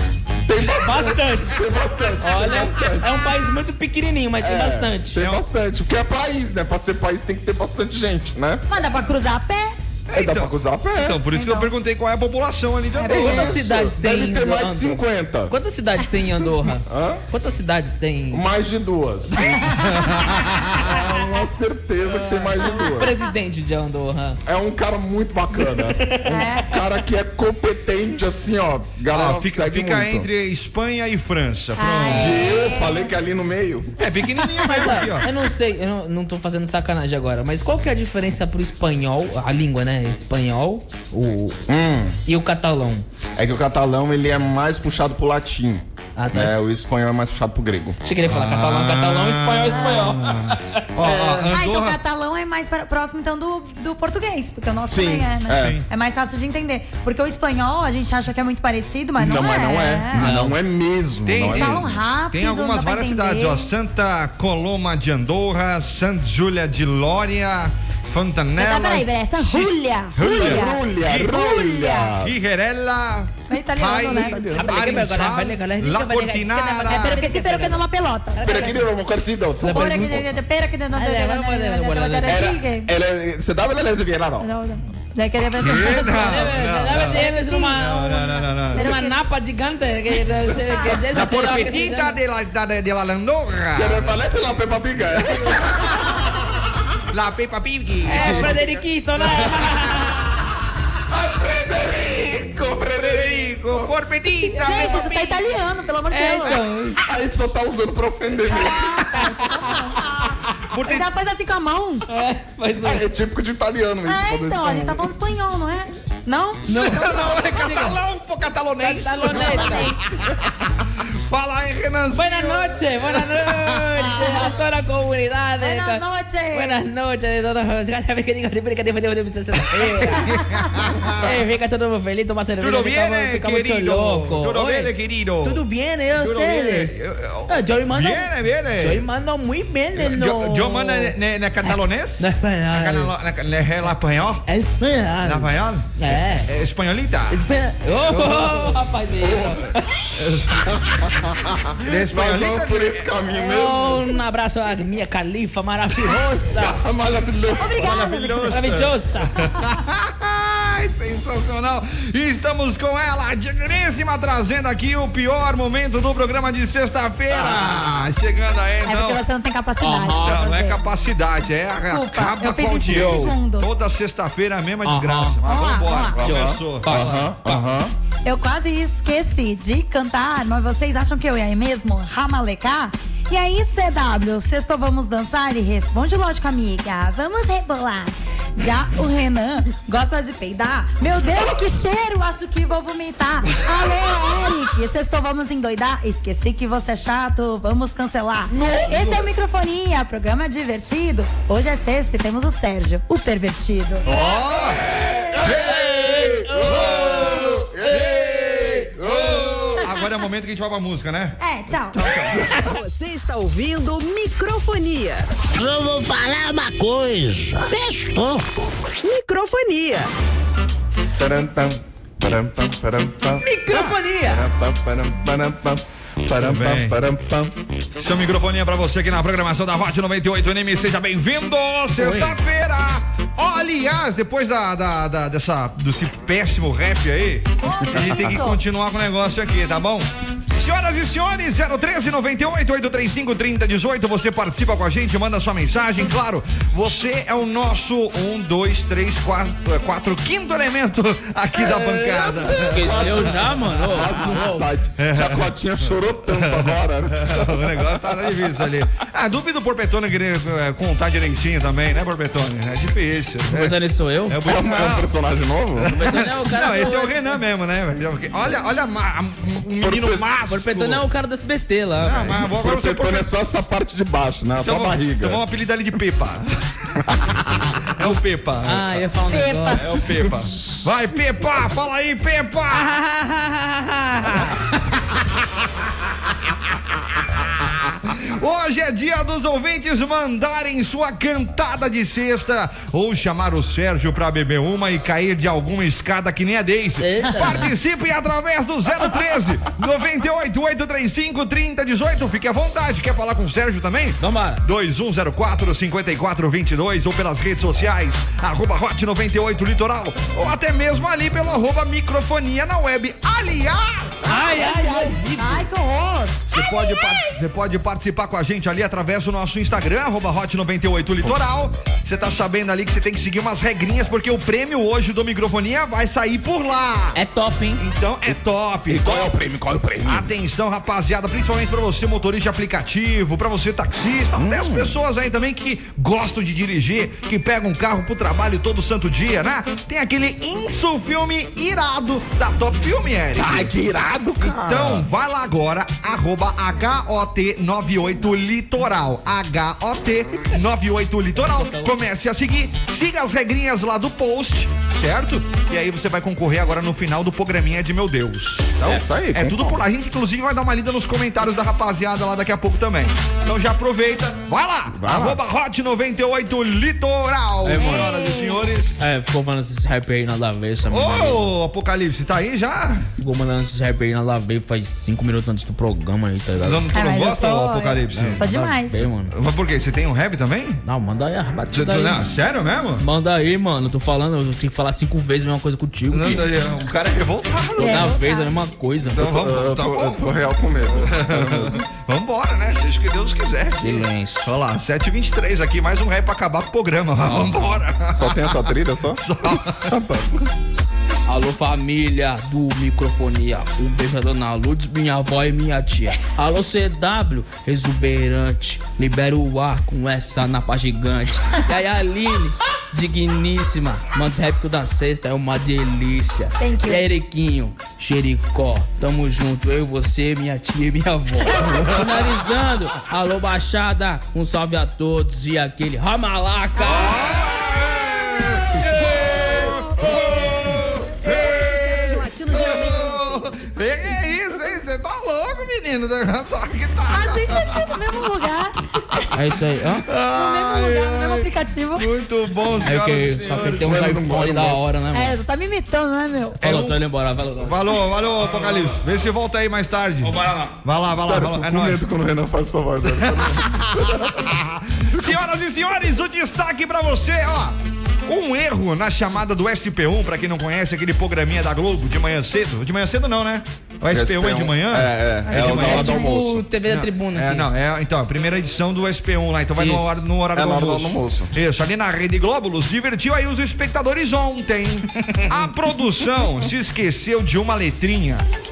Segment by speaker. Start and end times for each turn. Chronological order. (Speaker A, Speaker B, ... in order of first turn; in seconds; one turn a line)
Speaker A: 0.5-3.1
Speaker B: 0.8-1.6
Speaker B: 2.2-5.4
Speaker A: 4.4-8.9
Speaker C: 8.7-9.7
Speaker D: 10.1-13.5
Speaker A: 10.1-11.2
Speaker C: 11.3-11.7
Speaker C: 12.9-13.5
Speaker A: 13.1-15.5
Speaker B: 13.3-18.4
Speaker A: 16.9-17.2
Speaker A: 18.3-20.0
Speaker D: 19.8-20.8
Speaker A: 20.8-23.1
Speaker B: 22.6-24.4
Speaker A: 24.4-30.3
Speaker B: 25.6-26.3
Speaker C: 26.2-26.7
Speaker D: 29.1-32.5
Speaker C: 31.8-33.1
Speaker A: 32.1-33.9
Speaker D: 34.0-35.3
Speaker B: 34.6-41.6
Speaker A: 41.7-42.2
Speaker B: 42.2-43.0
Speaker A: 43.4-48.0
Speaker B: 46.1-46.5
Speaker B: 48.0-51.1
Speaker D: 48.2-52.0
Speaker A: 51.0-51.5
Speaker C: 51.5-60.2
Speaker A: 54.9-55.8
Speaker D: 55.5-55.8
Speaker A: 59.2-62.0
Speaker B: 60.2-60.5
Speaker D: 61.2-71.3
Speaker C: 61.4-63.7
Speaker C: 68.6-72.1
Speaker A: 70.2-72.3
Speaker D: 72.2-77.2
Speaker C: 73.5-74.7
Speaker A: 74.1-74.7
Speaker B: 74.5-77.8
Speaker C: 76.9-78.8
Speaker B: 78.3-78.8
Speaker A: 78.4-80.3
Speaker B: 79.6-80.2
Speaker C: 79.7-82.9
Speaker B: 80.9-82.5
Speaker A: 82.2-84.5
Speaker C: 84.4-89.2
Speaker D: 85.6-88.9
Speaker B: 85.9-92.2
Speaker D: 90.9-94.1
Speaker A: 93.7-96.1
Speaker D: 97.1-98.6
Speaker B: 98.0-100.2
Speaker A: 98.2-98.6
Speaker D: 99.2-99.7
Speaker A: 101.1-103.9
Speaker D: 102.9-105.4
Speaker B: 104.5-105.2
Speaker C: 104.6-106.6
Speaker B: 106.1-107.0
Speaker A: 107.0-109.1
Speaker C: 108.4-110.0
Speaker D: 110.2-111.1
Speaker C: 110.8-112.1
Speaker B: 112.1-113.0
Speaker A: 112.8-115.1
Speaker C: 114.0-117.4
Speaker D: 116.7-120.5
Speaker B: 116.9-118.0
Speaker B: 118.8-119.9
Speaker C: 119.2-120.2
Speaker D: 121.2-124.5
Speaker B: 122.1-130.3
Speaker C: 125.6-126.8
Speaker D: 129.8-131.3
Speaker B: 131.2-143.1
Speaker D: 132.6-135.6
Speaker D: 136.1-139.0
Speaker D: 139.9-144.4
Speaker B: 144.5-146.5
Speaker D: 145.2-145.9
Speaker D: 146.4-147.4
Speaker B: 147.3-149.9
Speaker D: 148.1-148.6
Speaker A: 149.2-149.7
Speaker D: 150.2-150.6
Speaker A: 150.6-154.1
Speaker D: 151.8-153.1
Speaker B: 153.4-156.8
Speaker C: 153.5-153.9
Speaker A: 156.5-158.1
Speaker C: 157.6-158.6
Speaker D: 157.7-169.2
Speaker B: 158.5-159.3
Speaker A: 167.4-167.8
Speaker C: 168.8-170.8
Speaker B: 169.8-170.4
Speaker D: 170.2-177.3
Speaker C: 171.9-173.7
Speaker B: 172.9-173.3
Speaker B: 174.8-175.4
Speaker C: 175.4-176.2
Speaker A: 176.2-177.9
Speaker B: 176.2-177.6
Speaker C: 178.2-204.1
Speaker A: 198.6-199.2
Speaker D: 198.6-199.2
Speaker D: 204.1-204.8
Speaker A: 204.1-209.9
Speaker D: 205.4-206.0
Speaker B: 205.5-208.9
Speaker D: 206.6-207.5
Speaker D: 208.9-211.4
Speaker C: 211.4-212.0
Speaker D: 211.9-212.5
Speaker A: 212.0-212.6
Speaker E: 212.5-215.3
Speaker F: 215.5-218.4
Speaker E: 219.0-220.1
Speaker A: 221.2-227.5
Speaker B: 223.4-224.4
Speaker D: 226.4-226.9
Speaker D: 228.0-265.1
Speaker B: 232.0-232.4
Speaker C: 237.6-238.6
Speaker A: 251.8-258.7
Speaker B: 252.4-254.7
Speaker B: 263.5-264.4
Speaker A: 264.4-266.0
Speaker D: 265.8-271.0
Speaker B: 265.9-267.4
Speaker A: 269.8-270.2
Speaker B: 270.5-272.4
Speaker D: 272.0-273.2
Speaker A: 272.4-275.4
Speaker D: 274.6-277.2
Speaker D: 277.9-279.0
Speaker B: 278.0-280.4
Speaker C: 279.3-280.0
Speaker D: 279.7-282.9
Speaker A: 280.4-280.7
Speaker B: 282.7-284.5
Speaker D: 284.3-285.2
Speaker D: 287.6-314.4
Speaker B: 297.0-297.7
Speaker B: 304.2-304.6
Speaker B: 314.2-315.7
Speaker C: 314.3-317.0
Speaker D: 316.5-327.2
Speaker B: 327.1-327.8
Speaker D: 327.8-329.3
Speaker A: 328.3-330.3
Speaker D: 330.0-343.7
Speaker A: 334.4-334.9
Speaker A: 343.3-345.1
Speaker D: 344.5-368.9
Speaker B: 351.4-351.9
Speaker A: 358.8-359.8
Speaker A: 364.9-365.4
Speaker B: 367.6-368.1
Speaker C: 367.8-368.6
Speaker B: 369.0-371.5
Speaker D: 370.9-373.1
Speaker B: 373.2-376.9
Speaker D: 376.6-378.4
Speaker C: 376.9-379.1
Speaker B: 378.1-379.3
Speaker D: 379.3-380.8
Speaker B: 380.8-382.2
Speaker D: 381.7-383.0
Speaker B: 383.0-386.5
Speaker D: 386.1-388.2
Speaker C: 387.8-388.5
Speaker B: 387.8-389.3
Speaker A: 389.1-391.8
Speaker D: 389.1-399.9
Speaker B: 393.8-394.6
Speaker B: 397.2-397.8
Speaker A: 398.1-400.5
Speaker B: 401.3-427.3
Speaker C: 416.6-417.1
Speaker D: 421.6-422.2
Speaker C: 426.8-427.1
Speaker D: 426.8-437.9
Speaker C: 429.6-430.0
Speaker E: 431.2-433.4
Speaker C: 437.1-439.3
Speaker B: 439.3-440.1
Speaker D: 440.1-444.0
Speaker C: 440.3-442.1
Speaker B: 442.8-445.4
Speaker A: 443.8-444.9
Speaker C: 445.1-446.6
Speaker B: 446.6-448.9
Speaker D: 446.6-447.0
Speaker D: 447.6-452.0
Speaker B: 450.2-450.7
Speaker A: 451.1-454.5
Speaker D: 453.1-466.1
Speaker A: 464.1-466.6
Speaker C: 465.5-466.4
Speaker B: 465.5-467.7
Speaker D: 466.9-478.4
Speaker B: 469.8-470.2
Speaker A: 470.5-471.5